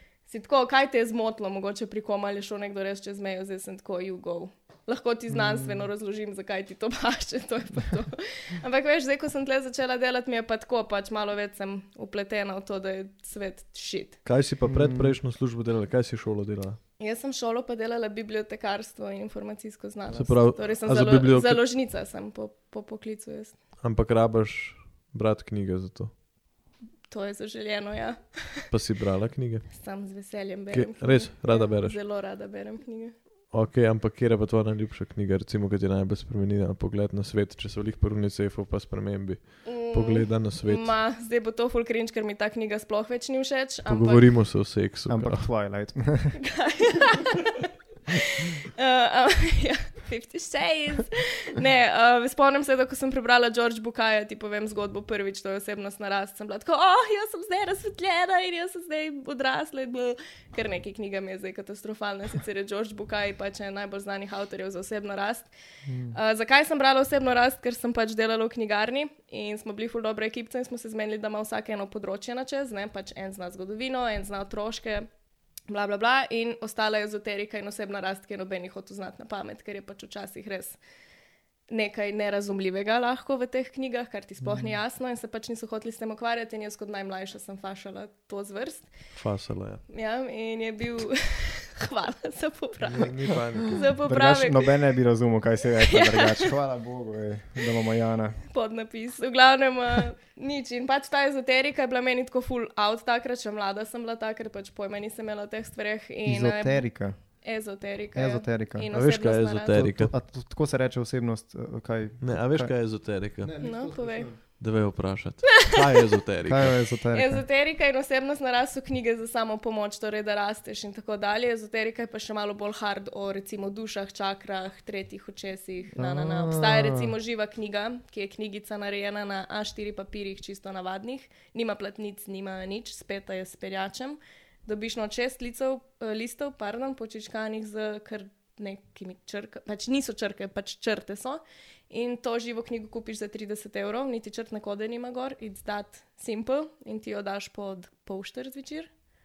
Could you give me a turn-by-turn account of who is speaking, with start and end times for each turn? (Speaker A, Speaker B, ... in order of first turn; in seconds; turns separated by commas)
Speaker A: 0.3-14.2, Speaker B: 5.3-5.9, Speaker C: 14.2-16.8, Speaker B: 14.7-15.2, Speaker A: 17.0-23.6, Speaker C: 20.1-21.6, Speaker C: 23.8-26.1, Speaker A: 27.1-28.7, Speaker C: 28.7-29.7, Speaker A: 29.7-33.1, Speaker C: 30.7-32.0, Speaker C: 33.5-40.9, Speaker A: 39.6-44.3, Speaker C: 43.9-45.5, Speaker B: 45.1-46.4, Speaker A: 46.4-65.5, Speaker B: 65.9-66.2, Speaker A: 66.1-75.1, Speaker A: 75.7-80.8, Speaker A: 81.7-88.9, Speaker B: 84.4-84.8, Speaker C: 89.1-89.8, Speaker A: 89.9-94.7, Speaker C: 92.8-93.9, Speaker B: 94.0-98.4, Speaker A: 95.9-96.5, Speaker A: 98.5-106.9, Speaker B: 106.2-107.2, Speaker A: 107.4-109.9, Speaker B: 108.2-108.9, Speaker C: 108.9-110.1, Speaker B: 109.7-114.4, Speaker C: 112.2-113.5, Speaker A: 113.6-114.3, Speaker C: 114.6-116.8, Speaker B: 116.5-117.4, Speaker A: 117.1-148.9, Speaker B: 126.0-127.2